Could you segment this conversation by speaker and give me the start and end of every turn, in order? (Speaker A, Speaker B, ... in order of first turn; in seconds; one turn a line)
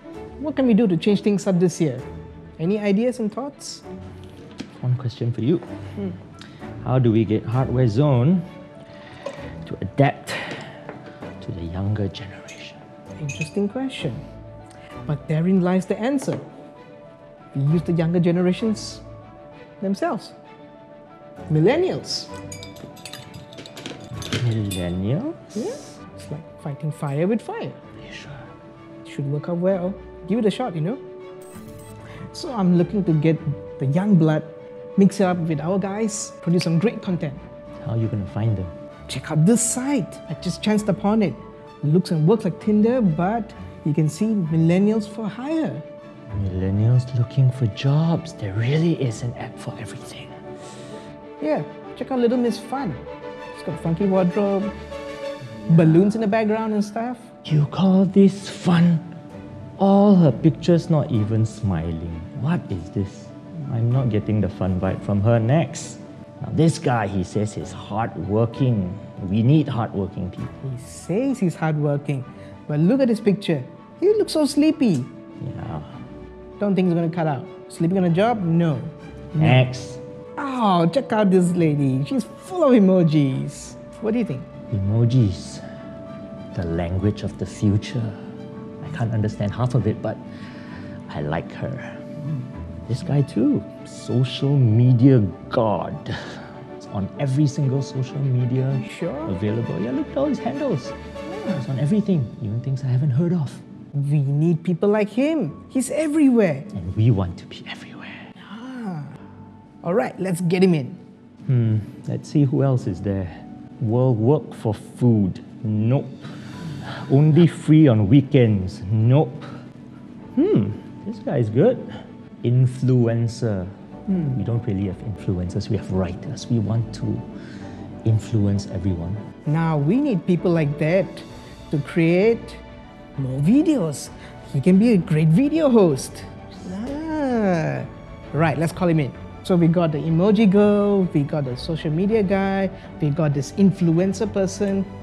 Speaker A: 0.4-2.0
Speaker A: 2.6-3.9
Speaker B: 4.8-6.1
Speaker B: 6.8-8.4
Speaker B: 9.6-10.8
Speaker B: 11.4-12.8
Speaker A: 13.2-14.2
Speaker A: 15.1-16.4
Speaker A: 17.5-19.0
Speaker A: 19.8-20.4
Speaker A: 21.5-22.3
Speaker B: 24.2-25.8
Speaker A: 25.5-27.8
Speaker B: 28.0-28.5
Speaker A: 29.0-31.0
Speaker A: 32.3-37.4
Speaker B: 37.8-38.7
Speaker A: 39.1-45.8
Speaker B: 46.3-50.4
Speaker A: 51.4-53.0
Speaker A: 53.5-54.7
Speaker B: 55.6-56.0
Speaker A: 55.7-57.3
Speaker B: 57.4-59.0
Speaker B: 59.8-70.5
Speaker A: 70.6-75.1
Speaker B: 75.4-76.0
Speaker A: 76.6-79.7
Speaker B: 79.4-80.0
Speaker A: 80.4-84.5
Speaker B: 84.7-85.6
Speaker B: 86.5-88.3
Speaker B: 88.8-92.0
Speaker B: 92.9-103.6
Speaker A: 98.7-99.4
Speaker A: 103.9-106.7
Speaker B: 106.7-108.3
Speaker A: 108.4-109.1
Speaker A: 109.8-111.0
Speaker B: 111.5-119.6
Speaker B: 120.3-127.2
Speaker B: 128.0-129.2
Speaker A: 129.4-132.6
Speaker A: 133.2-144.9